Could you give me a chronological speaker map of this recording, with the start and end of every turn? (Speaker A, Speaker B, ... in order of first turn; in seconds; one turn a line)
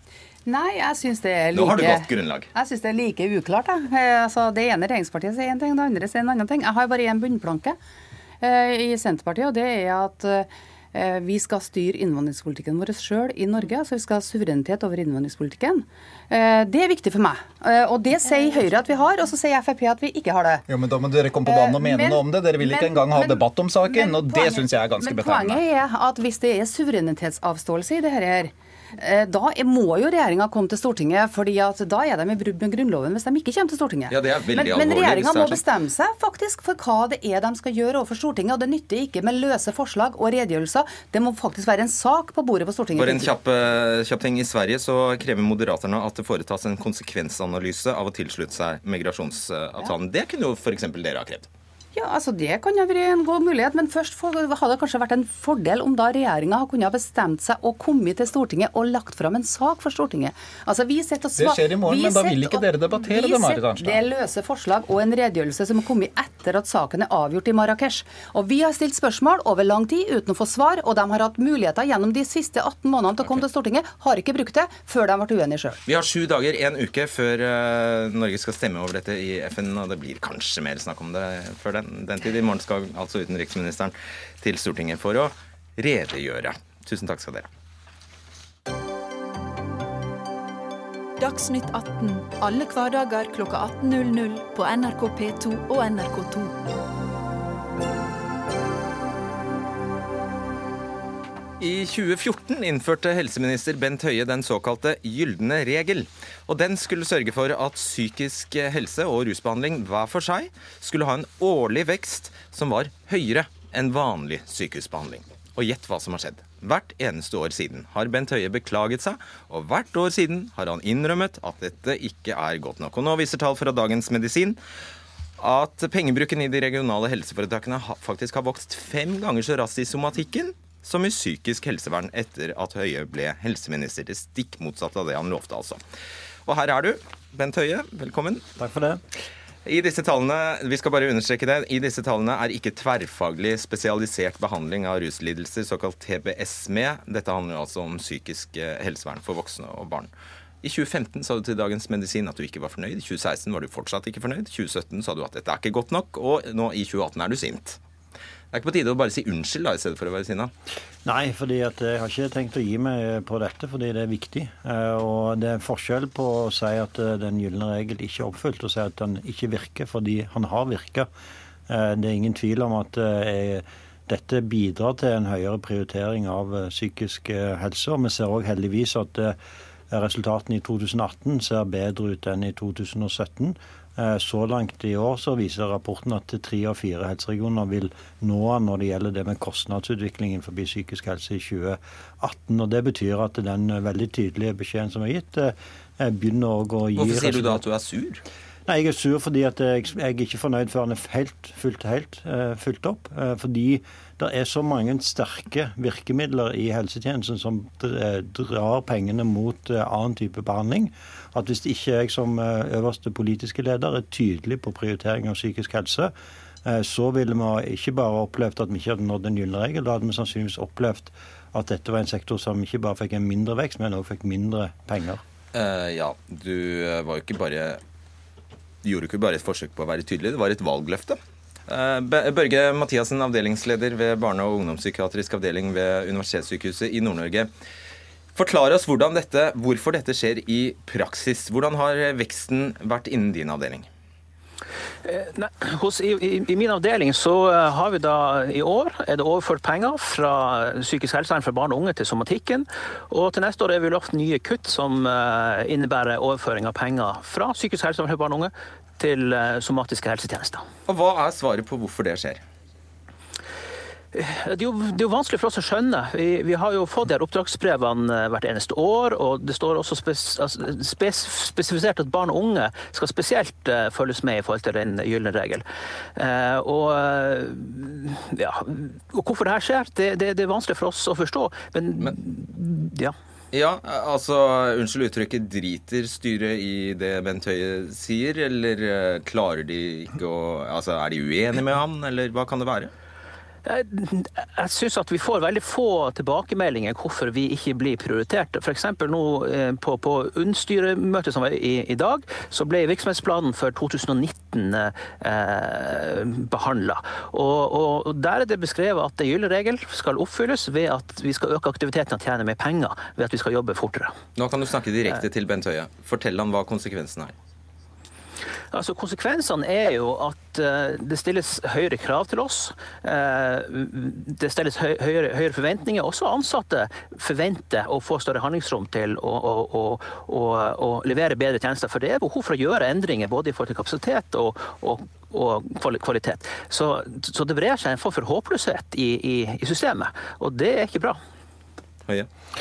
Speaker A: 0.5-7.8
Speaker B: 1.5-2.5
Speaker A: 8.4-20.7
Speaker C: 20.7-25.6
Speaker A: 21.4-43.3
Speaker B: 34.1-35.6
Speaker B: 43.0-51.5
Speaker A: 52.0-75.8
Speaker C: 61.4-64.0
Speaker B: 75.9-87.5
Speaker D: 91.2-96.6
Speaker B: 101.6-124.6
Speaker B: 125.4-135.8
Speaker B: 136.5-138.4
Speaker E: 138.6-139.0
Speaker B: 139.7-150.1
Speaker B: 150.6-157.8
Speaker B: 158.5-160.5
Speaker E: 161.1-171.1
Speaker E: 171.7-179.4
Speaker E: 179.9-197.6
Speaker B: 197.0-198.2
Speaker E: 198.7-216.1
Speaker E: 216.6-225.2
Speaker B: 225.5-227.8
Speaker B: 228.8-237.5
Speaker B: 238.3-243.9
Speaker F: 245.0-260.7
Speaker B: 260.9-262.4
Speaker F: 264.1-275.6
Speaker F: 276.1-283.1
Speaker B: 283.5-292.9
Speaker F: 293.6-314.2
Speaker B: 314.4-317.3
Speaker F: 318.7-341.2